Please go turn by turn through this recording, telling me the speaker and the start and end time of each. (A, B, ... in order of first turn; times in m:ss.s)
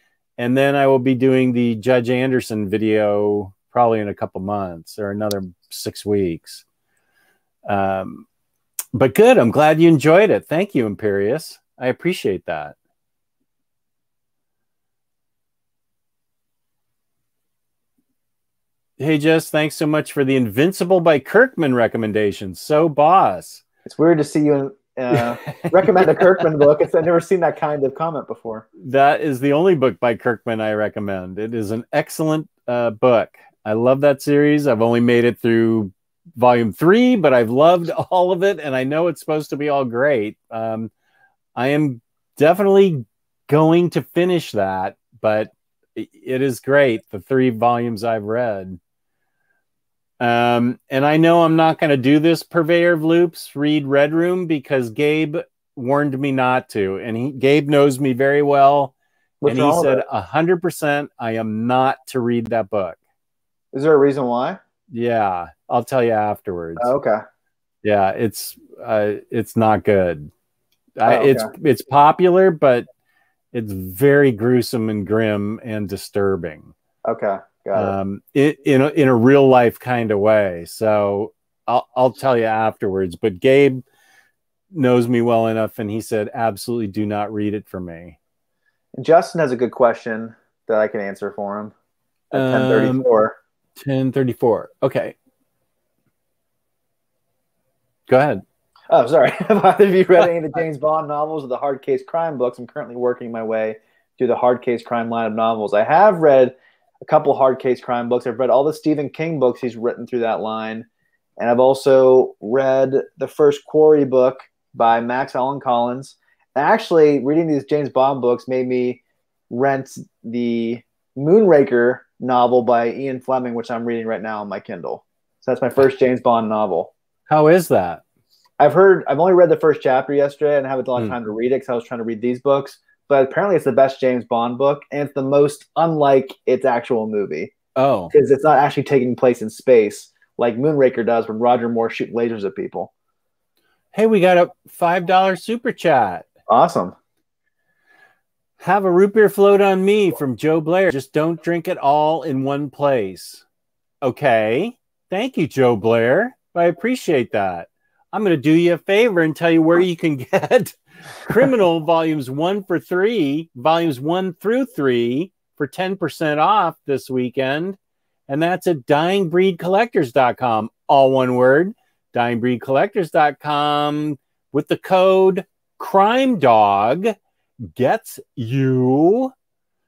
0:00.4-0:06.6 A
0:07.7-0:08.2 A
0:08.9-0:12.7 A
0:19.0-0:23.6 A
0:23.8-0:28.6 B
0:25.1-0:26.5 A
0:28.8-0:40.9 A
0:41.6-0:48.8 A
0:50.2-0:58.9 A
0:59.4-1:00.0 B
0:59.5-1:03.0 A
1:03.7-1:04.6 B
1:04.9-1:06.9 A
1:06.8-1:07.2 B
1:07.8-1:10.3 A
1:11.0-1:12.9 A
1:11.0-1:11.5 B
1:13.5-1:16.7 A
1:17.0-1:17.9 B
1:17.7-1:23.8 A
1:24.7-1:28.2 A
1:28.9-1:31.7 B
1:32.3-1:33.0 A
1:32.3-1:33.4 B
1:33.8-1:35.2 A
1:38.1-1:38.4 A
1:38.9-1:50.9 B
1:51.4-2:06.9 B
2:07.3-2:08.0 A
2:08.6-2:17.5 B
2:17.8-2:18.1 A
2:18.1-2:22.9 B
2:23.9-2:26.3 A
2:26.5-2:27.0 B
2:28.6-2:33.4 A
2:34.0-2:57.1 A
2:57.7-2:59.3 A